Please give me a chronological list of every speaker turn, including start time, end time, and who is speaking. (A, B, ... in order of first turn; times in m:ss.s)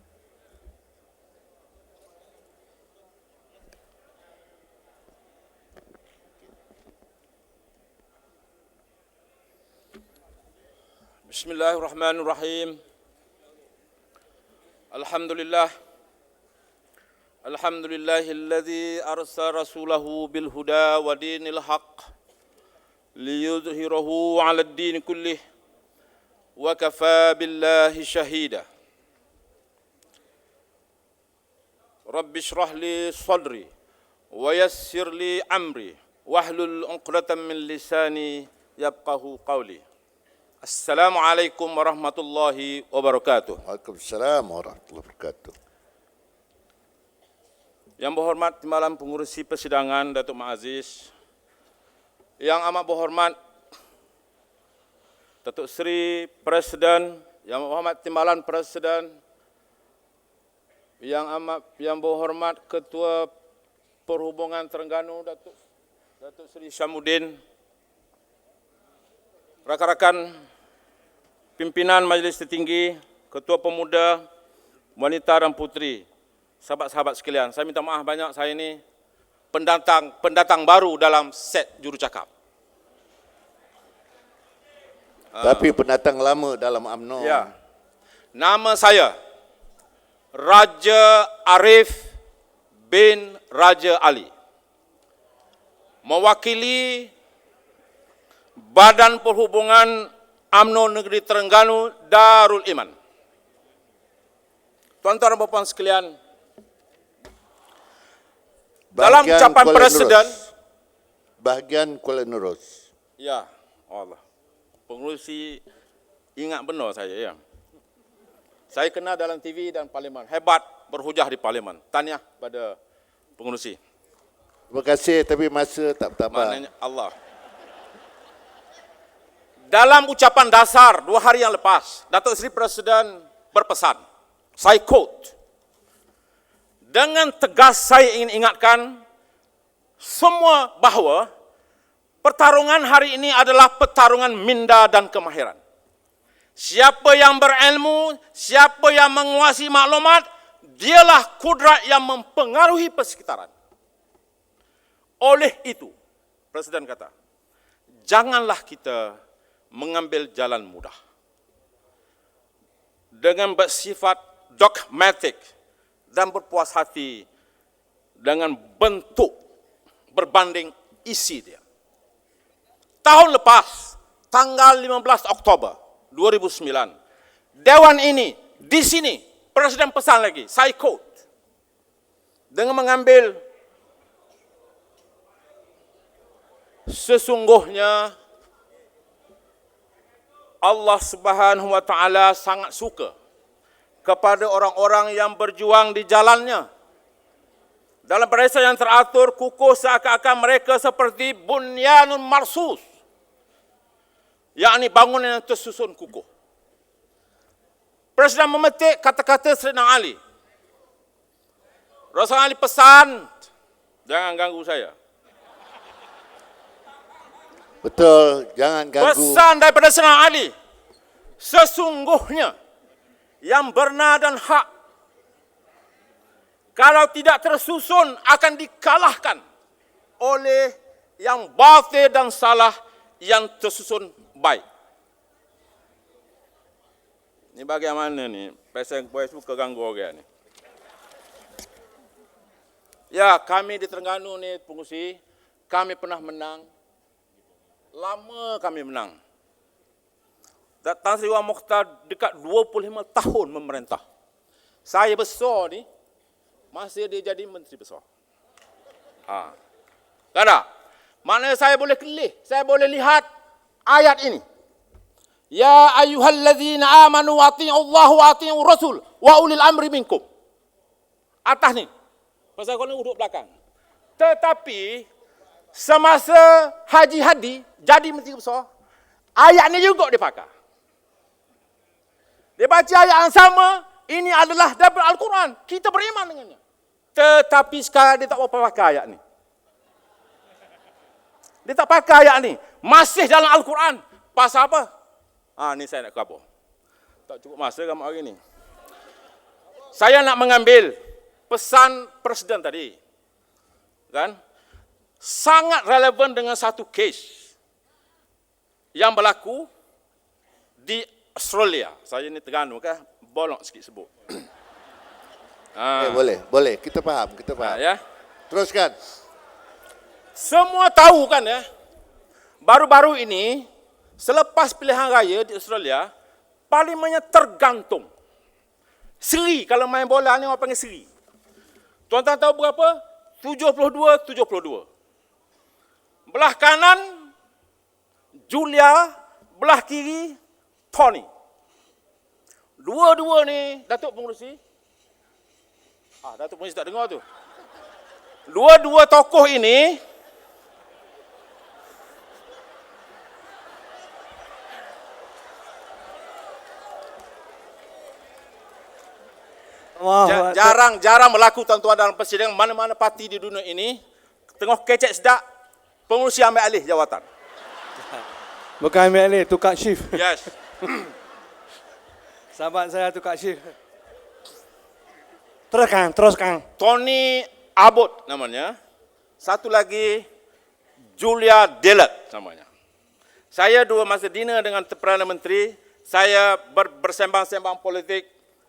0:11.3-0:12.8 A
0:14.9-0:15.7 A
0:17.4-0:22.1 A
0:23.2-0:25.4 A
0:26.6-0:28.6 A
0:32.1-0:33.7 A
0:34.3-0:39.8 A
0:40.6-0:43.6 A
0:43.6-0:45.5 B
0:48.0-0:51.1 A
0:52.4-0:53.3 A
0:55.4-0:59.1 A
1:01.0-1:03.3 A
1:04.1-1:05.5 A
1:06.2-1:07.4 A
1:09.6-1:10.3 A
1:11.6-1:14.2 A
1:15.0-1:16.0 A
1:16.6-1:18.8 A
1:19.5-1:22.3 A
1:25.3-1:25.7 A
1:25.4-1:27.5 B
1:27.2-1:27.5 A
1:28.3-1:29.1 A
1:30.3-1:32.0 A
1:32.9-1:34.3 A
1:36.0-1:37.1 A
1:38.6-1:42.9 A
1:45.0-1:46.1 A
1:48.9-1:50.5 B
1:49.0-1:50.4 A
1:51.4-1:52.7 B
1:53.2-1:54.2 A
1:54.9-1:55.6 A
1:56.4-1:57.4 A
1:58.7-2:02.8 A
2:03.4-2:03.8 A
2:04.7-2:06.6 B
2:06.3-2:07.1 A
2:09.7-2:14.0 A
2:14.6-2:15.3 A
2:16.9-2:19.0 A
2:20.0-2:21.3 A
2:22.2-2:25.6 A
2:26.6-2:30.2 A
2:30.8-2:33.5 A
2:35.2-2:35.9 A
2:36.5-2:37.1 A
2:38.0-2:39.2 A
2:39.7-2:40.9 A
2:43.1-2:45.4 A
2:46.1-2:47.2 A
2:48.2-2:49.3 A
2:50.1-2:51.6 A
2:53.0-2:56.9 A
2:57.6-3:01.1 A
3:02.5-3:03.4 A
3:06.9-3:08.1 A
3:10.6-3:13.1 A
3:14.0-3:16.7 A
3:18.0-3:22.8 A
3:24.6-3:26.2 A
3:28.2-3:30.2 A
3:32.1-3:33.3 A
3:34.0-3:34.9 A
3:37.8-3:39.4 B
3:39.0-3:40.5 A
3:41.4-3:42.5 A
3:43.4-3:44.6 A
3:46.8-3:49.4 A
3:50.2-3:54.6 A
3:57.5-4:00.2 A
4:03.1-4:06.7 A
4:07.9-4:09.2 A
4:10.8-4:14.0 A
4:14.8-4:15.8 A
4:16.7-4:18.0 A
4:19.3-4:19.5 A
4:20.3-4:20.6 A
4:21.2-4:23.2 A
4:23.9-4:24.4 A
4:25.5-4:30.2 A
4:31.4-4:31.9 A
4:32.6-4:33.5 A
4:34.2-4:35.1 A
4:35.7-4:38.7 A
4:39.4-4:40.5 A
4:42.6-4:46.6 A
4:47.2-4:49.2 A
4:51.6-4:54.9 A
4:55.6-4:56.4 A
4:57.3-4:58.4 A
4:59.9-5:00.9 A
5:01.5-5:03.0 A
5:04.1-5:04.4 A
5:05.2-5:07.5 A
5:08.9-5:09.7 A
5:10.8-5:14.4 A
5:15.8-5:16.2 A
5:16.0-5:17.8 B
5:17.6-5:18.0 A
5:18.5-5:18.9 B
5:20.4-5:21.6 A
5:22.6-5:23.6 A
5:24.2-5:26.1 A
5:26.7-5:28.1 A
5:29.2-5:31.1 A
5:32.1-5:34.8 A
5:36.3-5:37.3 A
5:38.5-5:40.4 A
5:40.9-5:41.3 A
5:42.8-5:44.6 A
5:46.2-5:47.2 A
5:48.5-5:50.0 A
6:00.0-6:00.8 C
6:00.2-6:04.0 A
6:04.6-6:05.4 A
6:06.1-6:07.2 A
6:08.8-6:10.2 C
6:10.1-6:11.1 A
6:12.5-6:13.7 C
6:15.7-6:16.6 C
6:16.8-6:18.7 A
6:19.4-6:20.2 A
6:21.2-6:22.7 A
6:23.5-6:28.3 A